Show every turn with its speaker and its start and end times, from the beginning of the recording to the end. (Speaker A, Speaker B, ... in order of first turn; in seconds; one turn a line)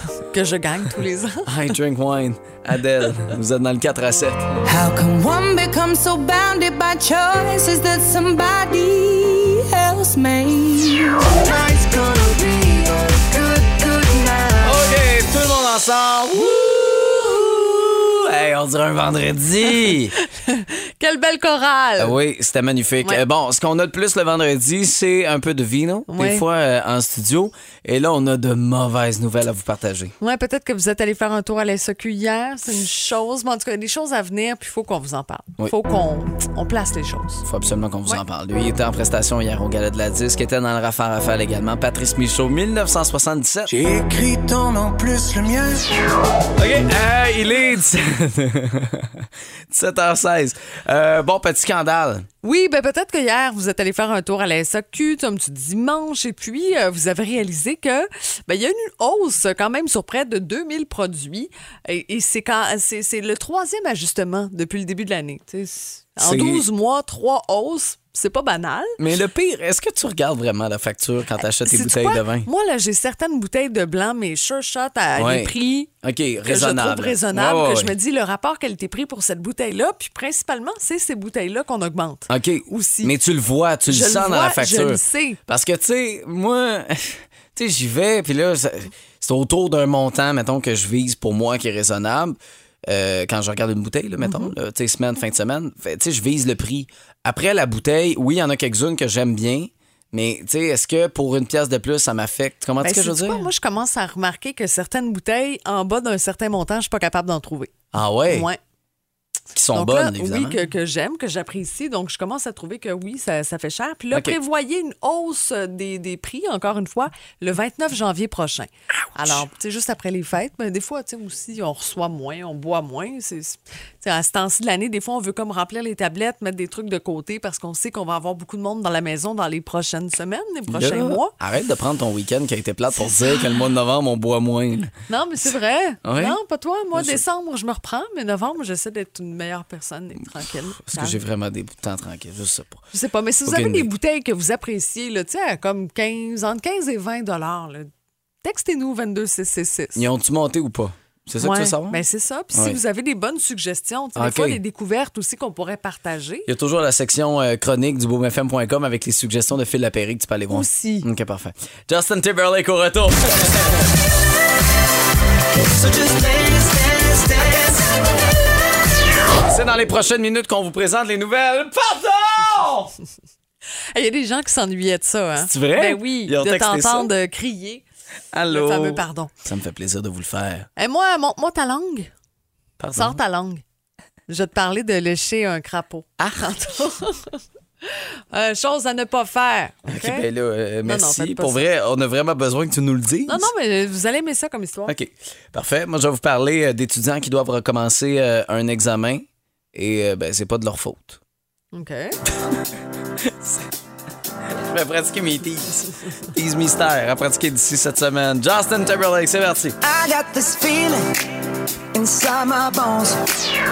Speaker A: 0.3-1.5
Speaker B: 1.5-4.5
Speaker C: 4.7-14.7
Speaker B: 14.6-20.1
Speaker A: 20.2-22.2
Speaker B: 22.0-30.1
Speaker A: 26.1-26.4
Speaker A: 30.2-37.5
Speaker B: 37.5-43.8
Speaker D: 43.7-45.8
Speaker B: 46.6-52.3
Speaker A: 52.4-69.0
Speaker B: 66.2-66.7
Speaker B: 69.0-72.5
Speaker A: 71.4-75.9
Speaker B: 75.2-77.9
Speaker A: 76.5-83.1
Speaker B: 82.3-103.5
Speaker A: 83.9-85.4
Speaker A: 94.2-94.5
Speaker A: 102.8-107.8
Speaker B: 107.9-108.5
Speaker A: 108.3-108.6
Speaker B: 109.5-110.6
Speaker A: 109.7-131.3
Speaker B: 114.1-114.4
Speaker B: 130.7-134.9
Speaker A: 135.1-141.2
Speaker B: 136.0-136.4
Speaker B: 136.9-137.2
Speaker B: 140.8-142.8
Speaker A: 142.9-147.9
Speaker B: 143.5-143.9
Speaker A: 148.4-150.1
Speaker B: 150.0-152.0
Speaker A: 151.4-156.5
Speaker B: 154.2-154.6
Speaker B: 156.5-163.8
Speaker A: 160.5-161.1
Speaker D: 165.9-166.2
Speaker B: 169.4-172.9
Speaker A: 173.9-177.8
Speaker B: 175.4-177.1
Speaker B: 178.3-180.7
Speaker A: 178.5-179.3
Speaker A: 180.8-182.1
Speaker B: 182.8-183.2
Speaker A: 183.0-183.6
Speaker A: 184.3-190.3
Speaker B: 186.2-186.5
Speaker B: 189.9-193.5
Speaker A: 190.8-191.6
Speaker A: 193.3-194.9
Speaker B: 194.9-201.2
Speaker A: 201.7-202.2
Speaker B: 204.6-209.8
Speaker C: 209.8-211.2
Speaker C: 211.9-213.2